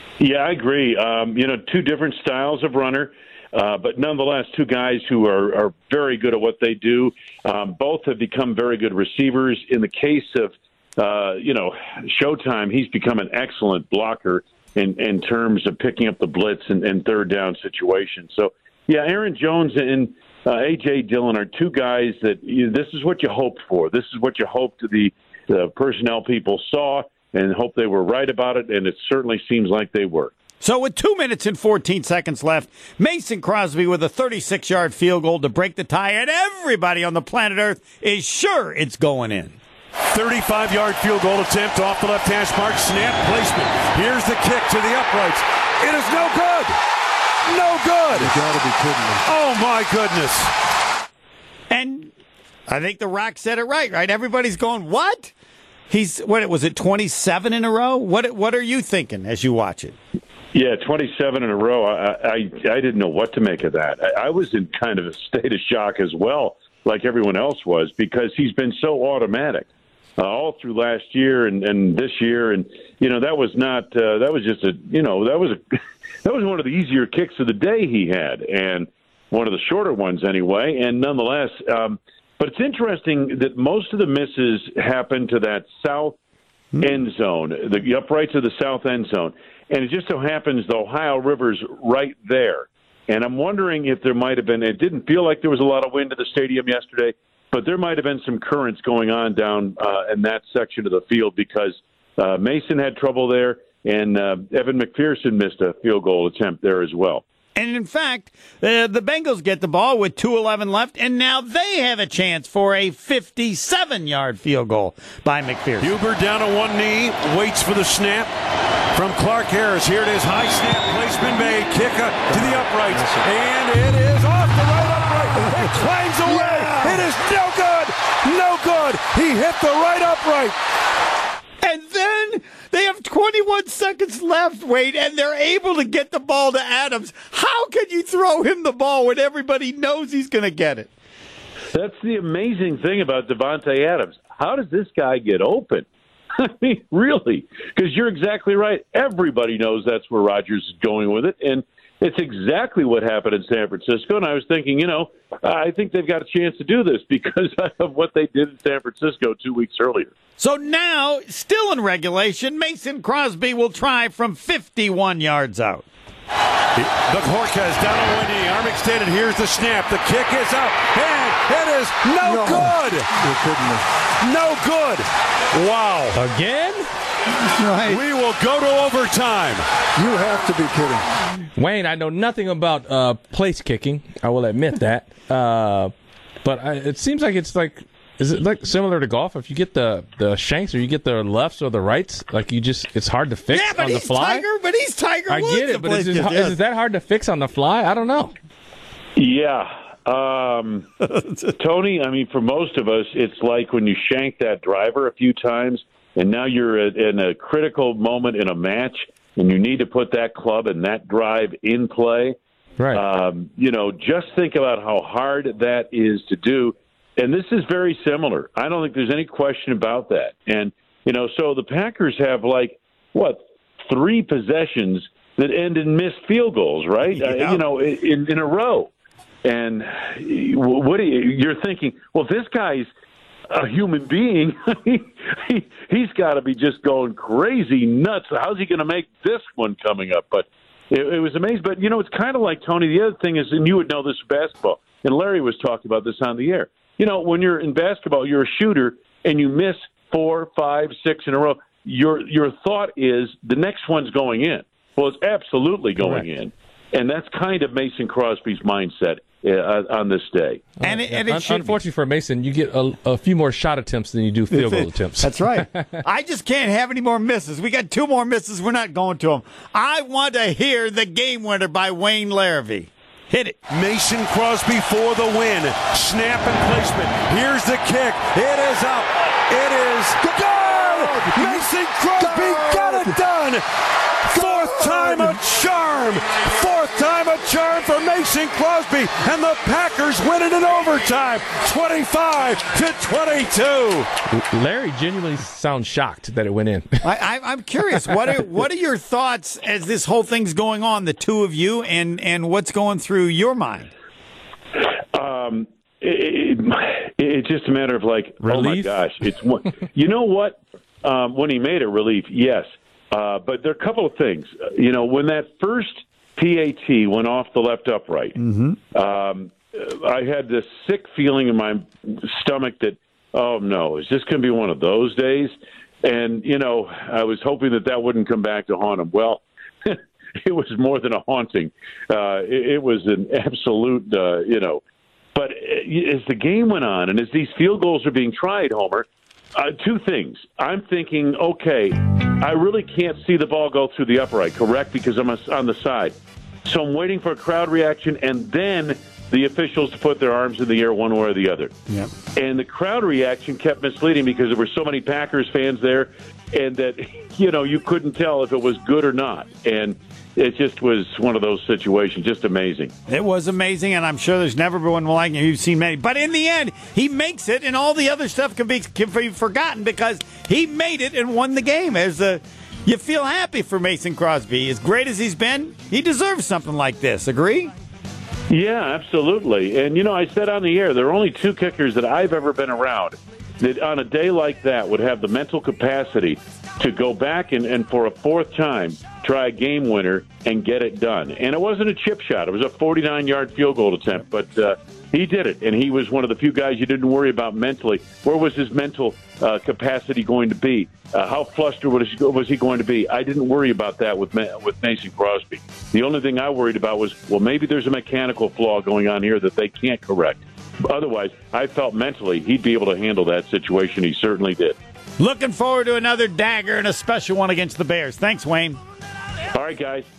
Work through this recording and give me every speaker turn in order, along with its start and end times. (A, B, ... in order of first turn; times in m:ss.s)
0:00.2-0:30.3 A
0:30.6-0:39.6 B
0:40.1-0:46.8 C
0:47.5-0:48.3 C
0:48.2-0:49.2 D
0:49.3-0:50.5 C
0:51.7-0:52.1 B
0:52.7-0:55.3 B
0:55.9-1:00.0 B
1:00.5-1:09.7 A
1:10.2-1:15.6 A
1:16.2-1:26.2 A
1:26.8-1:47.2 A
1:47.6-1:55.9 B
1:55.8-1:58.3 C
1:58.9-2:10.6 C
2:06.2-2:07.1 B
2:11.6-2:20.9 B
2:21.7-2:40.1 A
2:40.4-2:45.8 B
2:46.8-2:53.1 C
2:52.3-2:53.8 D
2:54.2-2:56.2 C
2:56.2-2:56.9 E
2:57.5-2:58.0 B
2:57.9-2:59.6 C
3:00.0-3:01.1 D
3:01.6-3:05.9 E
3:06.4-3:14.5 E
3:13.5-3:16.6 B
3:15.3-3:18.3 E
3:19.2-3:20.8 A
3:21.0-3:21.5 B
3:21.6-3:32.4 A
3:32.9-3:48.9 A
3:47.1-3:47.6 B
3:49.4-3:52.9 A
3:53.5-4:20.6 A
4:16.0-4:16.3 E
4:20.8-4:26.0 E
4:20.8-4:21.8 B
4:24.5-4:33.6 B
4:33.7-4:43.6 C
4:40.8-4:41.6 D
4:42.2-4:43.2 D
4:44.3-4:45.3 D
4:44.3-4:54.1 C
4:54.3-4:57.1 E
4:57.0-5:03.9 B
5:05.1-5:18.4 A
5:08.4-5:08.9 E
5:18.4-5:18.8 B
5:18.9-5:25.5 A
5:26.0-5:34.8 A
5:35.4-5:51.7 A
5:52.4-6:02.9 A
6:03.1-6:17.7 B
6:18.5-6:54.8 A
6:55.2-6:58.8 B
6:59.5-7:00.1 A